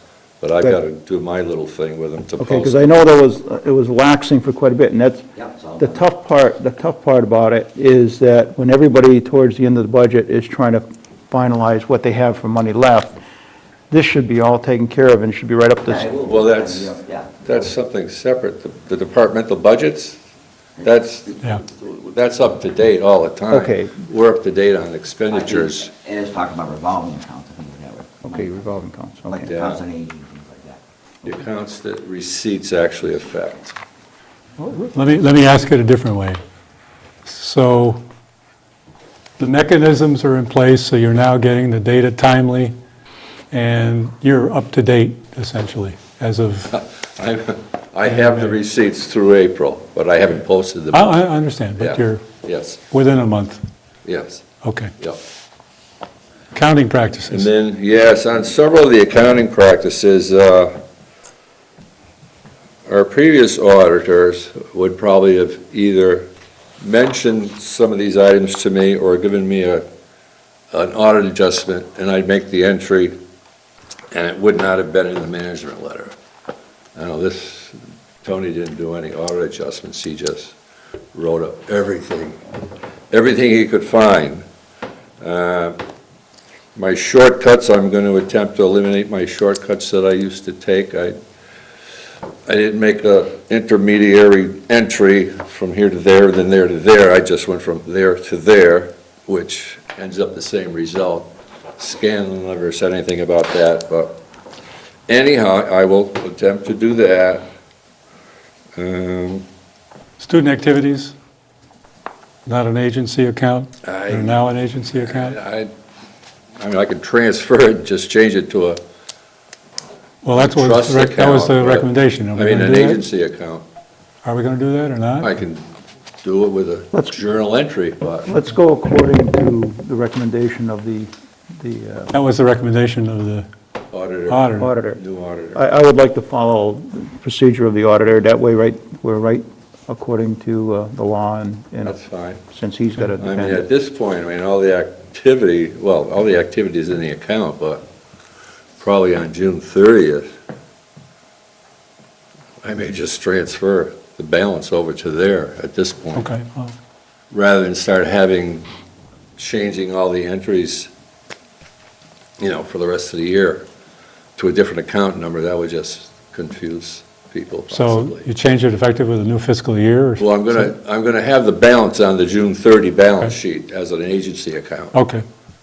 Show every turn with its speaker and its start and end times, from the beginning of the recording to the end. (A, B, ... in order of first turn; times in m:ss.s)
0:00.4-0:02.8 A
0:02.4-0:05.2 B
0:05.4-0:06.0 C
0:05.8-0:13.2 B
0:13.9-0:16.1 B
0:15.8-0:17.6 C
0:16.2-0:20.2 A
0:20.8-0:25.9 A
0:23.5-0:24.0 B
0:25.3-0:28.5 C
0:28.2-0:29.5 B
0:29.2-0:31.4 C
0:29.4-0:29.8 A
0:31.2-0:33.8 A
0:34.6-0:36.4 D
0:37.2-0:38.0 D
0:39.4-0:42.8 D
0:43.5-0:46.8 D
0:46.7-0:51.2 A
0:48.1-0:48.5 D
0:50.9-0:52.2 D
0:51.8-0:52.8 A
0:52.9-0:53.6 D
0:54.0-0:54.4 A
0:54.6-0:54.9 D
0:56.5-0:57.5 D
0:57.3-1:00.8 A
1:02.9-1:06.3 A
1:06.8-1:09.8 A
1:10.7-1:13.2 A
1:14.1-1:16.1 A
1:17.0-1:20.5 A
1:21.1-1:22.4 A
1:23.1-1:24.4 A
1:25.2-1:25.8 A
1:26.8-1:31.2 A
1:32.5-1:44.2 A
1:45.1-1:47.5 A
1:48.8-1:49.4 A
1:50.2-1:51.2 D
1:52.5-1:55.4 D
1:53.8-1:55.7 A
1:56.6-1:58.8 A
2:00.2-2:03.0 D
2:00.3-2:03.6 A
2:04.2-2:05.3 D
2:05.2-2:05.7 A
2:06.2-2:08.3 A
2:08.2-2:12.1 B
2:12.1-2:13.5 D
2:13.9-2:15.6 A
2:14.3-2:14.7 D
2:14.6-2:15.0 B
2:15.5-2:22.0 B
2:21.8-2:22.4 A
2:22.5-2:23.6 B
2:23.2-2:27.8 A
2:28.8-2:30.3 A
2:32.6-2:36.3 A
2:36.2-2:36.8 D
2:37.3-2:38.7 A
2:39.4-2:40.9 A
2:42.4-2:43.6 A
2:44.4-2:48.3 A
2:47.7-2:50.6 D
2:50.2-2:55.0 A
2:54.9-2:55.2 D